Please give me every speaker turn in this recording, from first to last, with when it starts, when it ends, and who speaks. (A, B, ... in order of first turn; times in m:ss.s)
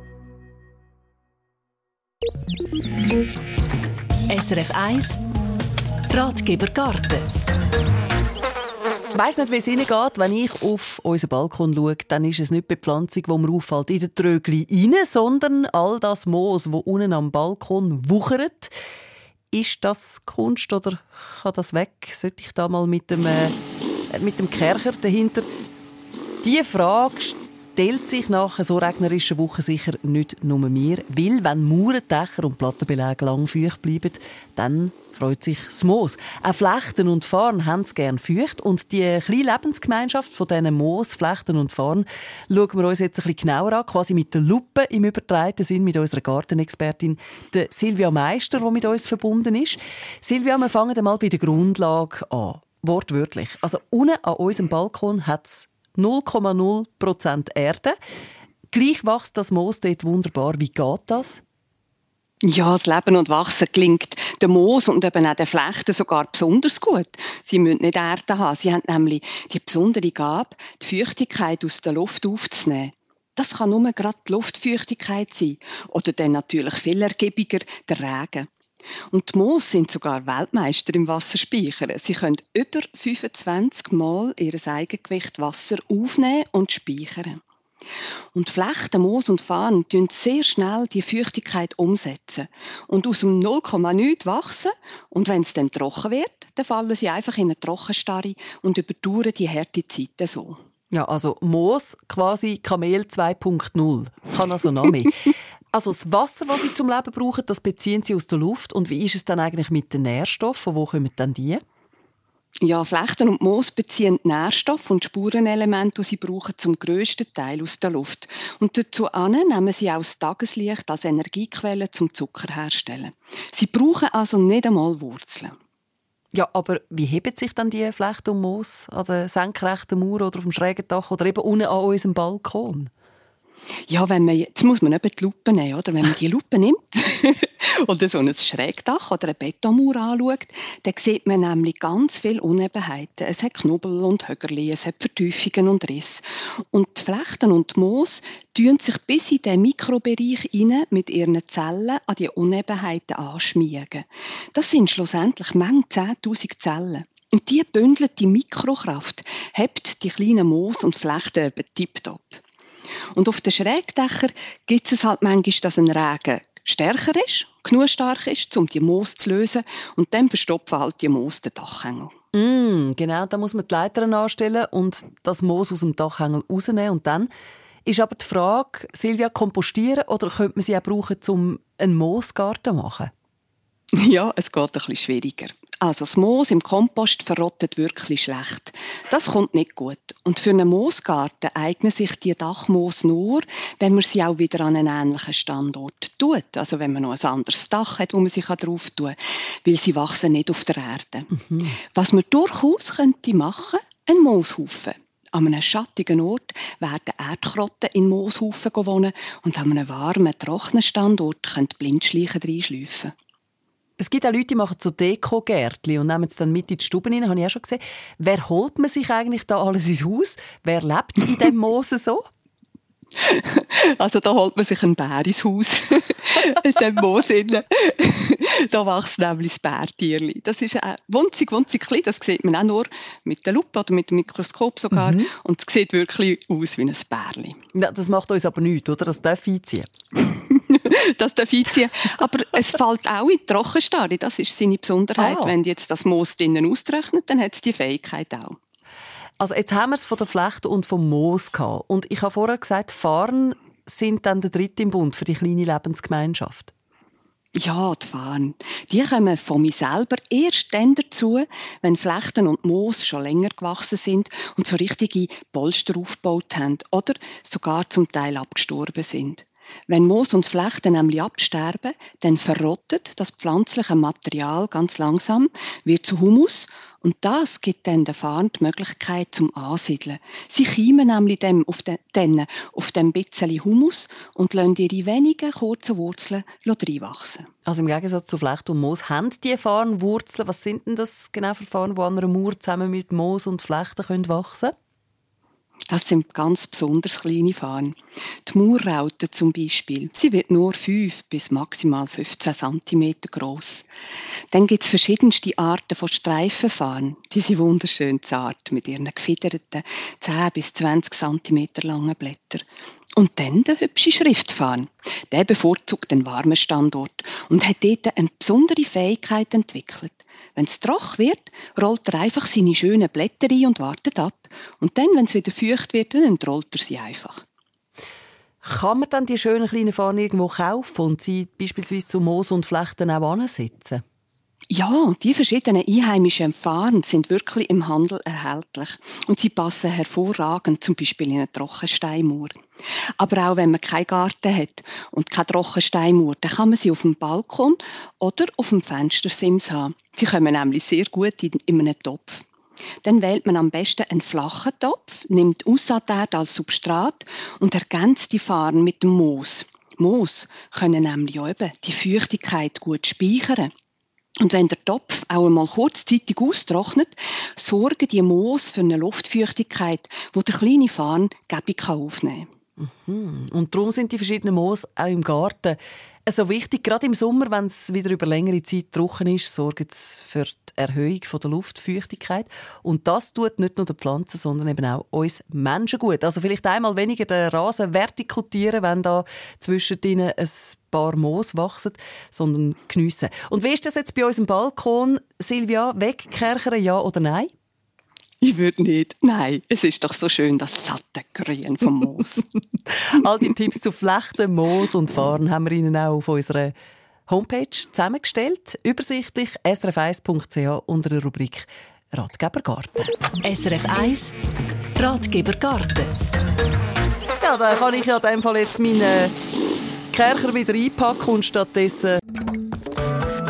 0:04.3-0:05.2 A
0:06.1-0:07.2 A
0:09.1-0:18.7 B
0:19.5-0:23.6 B
0:24.1-0:25.5 B
0:26.4-0:57.9 B
0:58.7-1:01.4 B
1:02.4-1:18.5 C
1:19.1-1:27.4 C
1:28.3-1:40.6 C
1:40.9-1:51.6 B
1:52.6-2:05.5 C
2:06.3-2:12.9 B
2:13.9-2:42.4 C
2:43.1-2:52.1 C
2:52.3-2:57.3 B
2:57.8-3:03.1 B
3:03.9-3:33.1 C
3:21.3-3:21.8 B
3:34.0-3:42.2 B
3:43.2-3:57.6 C
3:54.9-3:55.3 B
3:57.7-3:59.9 B
4:00.2-4:08.6 C
4:05.2-4:05.5 B
4:09.4-4:16.7 B
4:17.6-4:47.5 C
4:47.6-4:54.7 B
4:55.9-5:03.8 C
5:04.5-5:12.6 C
5:13.2-5:27.4 C
5:28.6-5:34.0 B
5:34.7-5:42.5 C
5:43.2-5:52.4 C
5:53.0-6:03.7 C
6:04.4-6:12.5 C
6:12.8-6:37.5 B
6:38.4-6:42.4 C
6:42.8-6:46.7 B
6:47.3-6:53.3 B
6:53.4-6:54.3 A
6:55.0-6:56.1 A
6:57.4-6:59.3 B
7:00.1-7:02.2 B